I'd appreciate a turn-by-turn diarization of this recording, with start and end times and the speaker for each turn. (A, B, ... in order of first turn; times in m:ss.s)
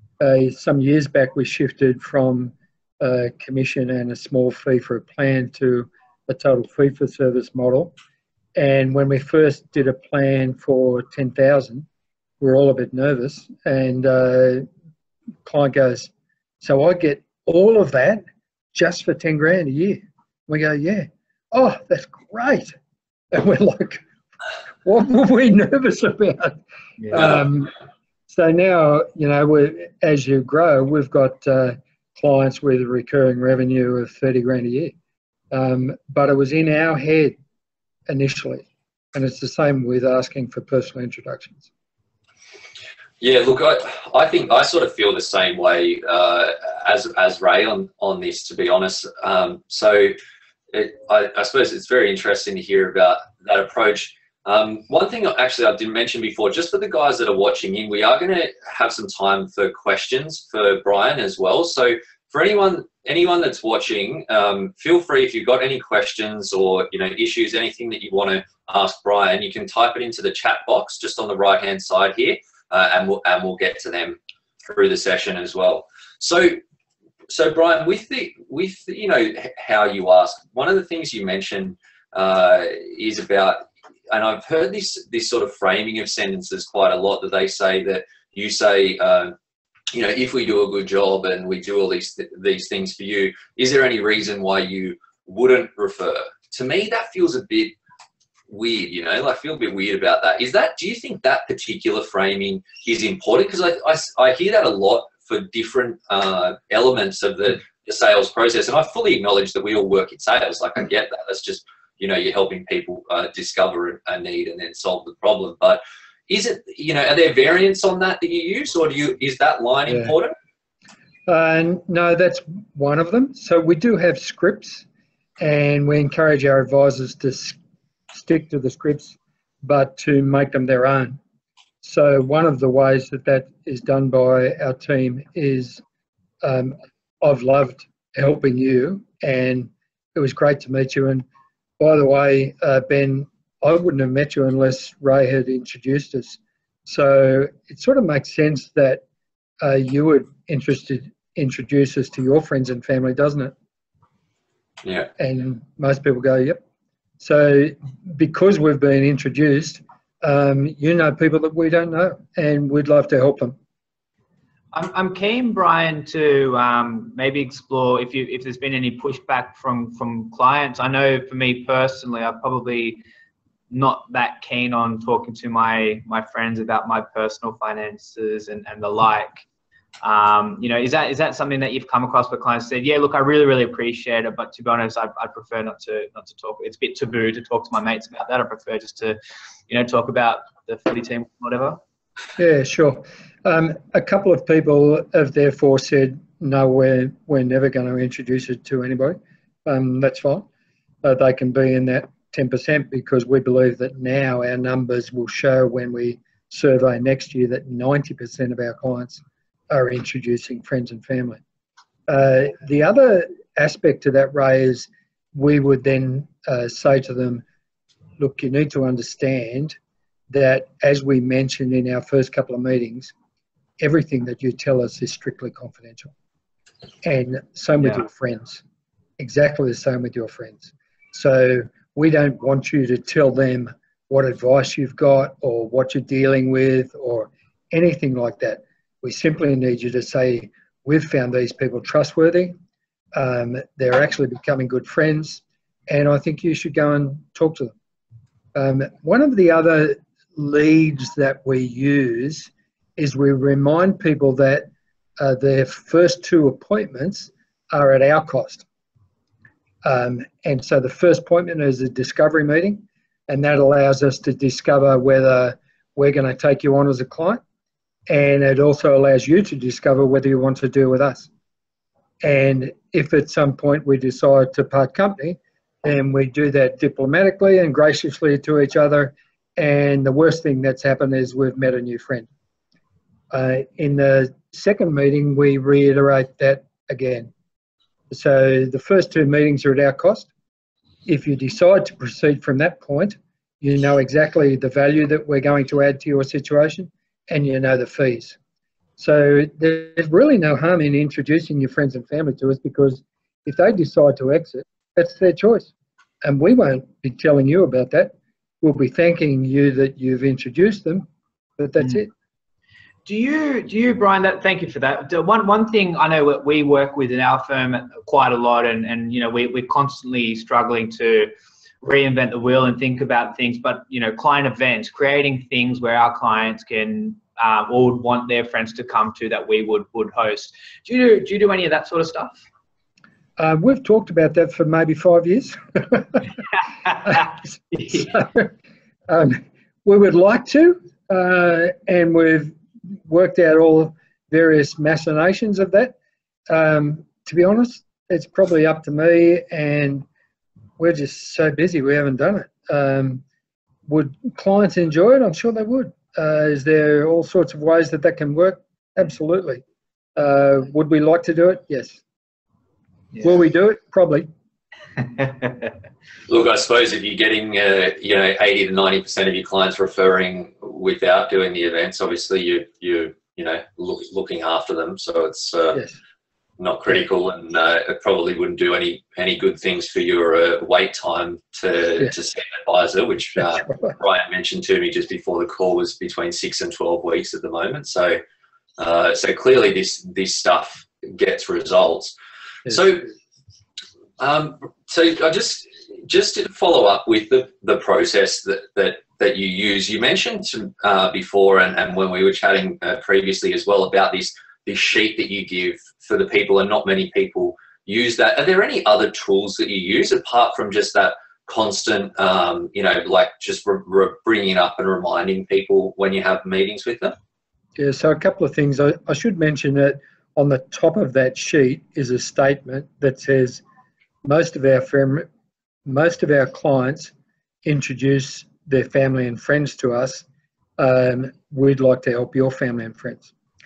0:00.2-0:07.9 A
0:08.6-0:11.9 A
0:12.4-0:14.6 A
0:15.4-0:16.1 A
0:16.6-0:22.7 A
0:23.3-0:24.0 A
0:24.8-0:26.6 A
0:27.0-0:27.4 B
0:27.1-0:27.7 A
0:28.3-0:35.0 A
0:35.5-0:37.4 A
0:38.1-0:41.7 A
0:43.2-0:50.2 C
0:50.7-1:16.6 C
1:17.3-1:29.3 C
1:29.9-1:37.8 C
1:38.5-2:00.3 C
1:59.9-2:00.1 A
2:01.3-2:04.9 A
2:05.4-2:07.6 A
2:08.1-2:11.2 A
2:11.8-2:15.8 A
2:16.4-2:21.2 A
2:21.8-2:29.0 A
2:29.6-2:33.5 A
2:34.8-2:35.1 C
2:35.2-2:36.6 A
2:37.2-2:43.6 A
2:44.7-2:53.0 B
2:53.7-2:59.4 B
3:00.0-3:09.2 B
3:09.7-3:11.8 B
3:12.4-3:20.5 A
3:21.0-3:31.4 A
3:32.1-3:37.4 A
3:38.2-3:39.8 A
3:40.3-3:43.1 A
3:43.8-3:46.1 A
3:47.0-3:48.6 A
3:49.2-4:02.6 A
4:03.1-4:07.8 A
4:08.6-4:18.7 A
4:19.8-4:27.4 A
4:28.1-4:31.3 A
4:32.2-4:42.3 A
4:43.3-4:47.3 A
4:48.1-4:50.3 A
4:51.0-4:58.4 A
4:59.0-5:05.7 A
5:06.2-5:11.1 A
5:11.6-5:12.1 A
5:13.1-5:21.3 B
5:21.8-5:32.4 B
5:33.4-5:36.2 A
5:37.7-5:38.0 B
5:37.8-5:38.5 A
5:39.1-5:46.0 A
5:46.5-5:50.1 A
5:50.8-5:53.2 A
5:53.9-5:59.6 A
6:00.2-6:02.0 A
6:03.2-6:04.3 A
6:05.2-6:05.7 B
6:06.3-6:15.8 C
6:16.6-6:28.2 C
6:23.4-6:23.9 A
6:28.8-6:32.2 C
6:32.7-6:33.1 C
6:34.2-6:57.2 C
6:57.8-7:03.6 A
7:04.2-7:05.3 A
7:05.9-7:07.1 A
7:07.6-7:10.2 A
7:10.8-7:13.3 A